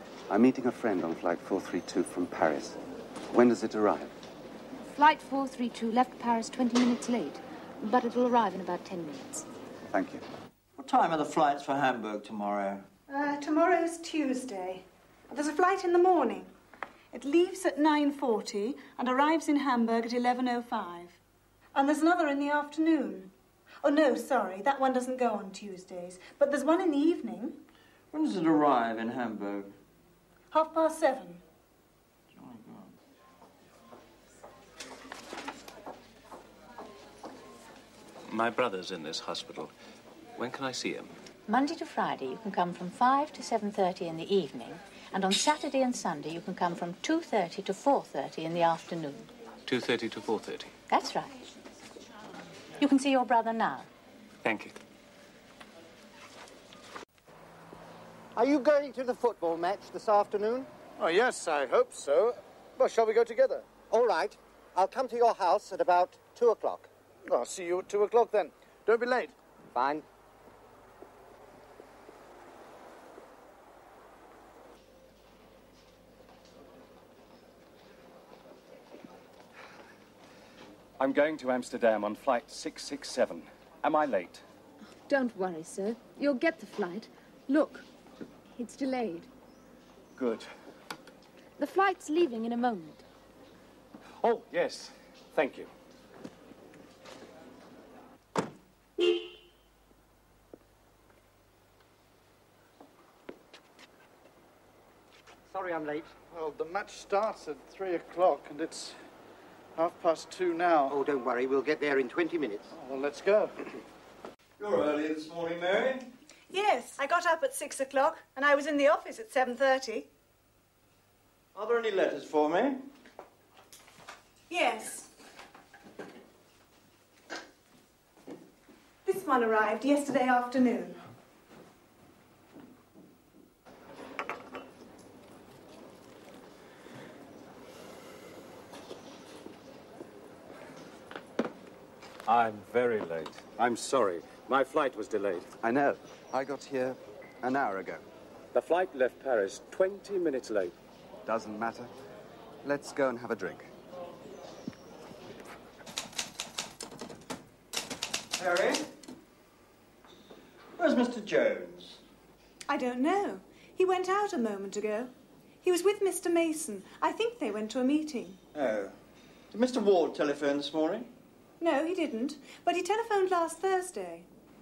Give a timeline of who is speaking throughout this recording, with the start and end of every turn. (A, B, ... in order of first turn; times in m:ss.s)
0:00.3-0:02.8 A
0:03.3-0:04.1 A
0:04.9-0:09.4 B
0:09.9-0:10.2 A
0:10.8-0:12.8 C
0:13.1-0:16.5 D
0:17.1-0:21.2 D
0:21.7-0:23.3 D
0:23.8-0:27.6 D
0:28.1-0:29.7 C
0:30.5-0:31.4 D
0:32.3-0:32.9 C
0:38.3-0:39.7 E
0:40.4-0:41.1 E
0:41.5-0:49.2 F
0:49.7-0:50.7 E
0:50.9-0:51.3 F
0:52.8-0:53.8 F
0:54.4-0:54.8 E
0:58.3-1:00.7 G
1:01.0-1:03.6 H
1:03.9-1:06.9 G
1:07.2-1:09.3 H
1:09.7-1:10.0 G
1:21.0-1:24.4 I
1:25.1-1:27.9 B
1:28.6-1:29.3 B
1:30.2-1:30.5 I
1:31.6-1:33.0 B
1:34.2-1:35.7 I
1:45.5-1:45.9 G
1:46.2-1:49.0 H
1:49.8-1:51.0 H
1:50.9-1:52.6 G
1:52.7-1:53.5 H
1:54.6-1:56.1 C
1:56.5-2:00.1 D
2:01.5-2:02.8 C
2:04.5-2:05.1 D
2:09.0-2:11.0 D
2:22.2-2:25.5 I
2:25.6-2:28.0 A
2:28.5-2:30.7 I
2:31.2-2:31.9 A
2:32.6-2:33.6 A
2:38.4-2:38.8 C
2:40.8-2:42.0 C
2:42.7-2:48.4 D
2:48.5-2:48.9 C
2:49.5-2:51.1 C
2:51.6-2:54.3 D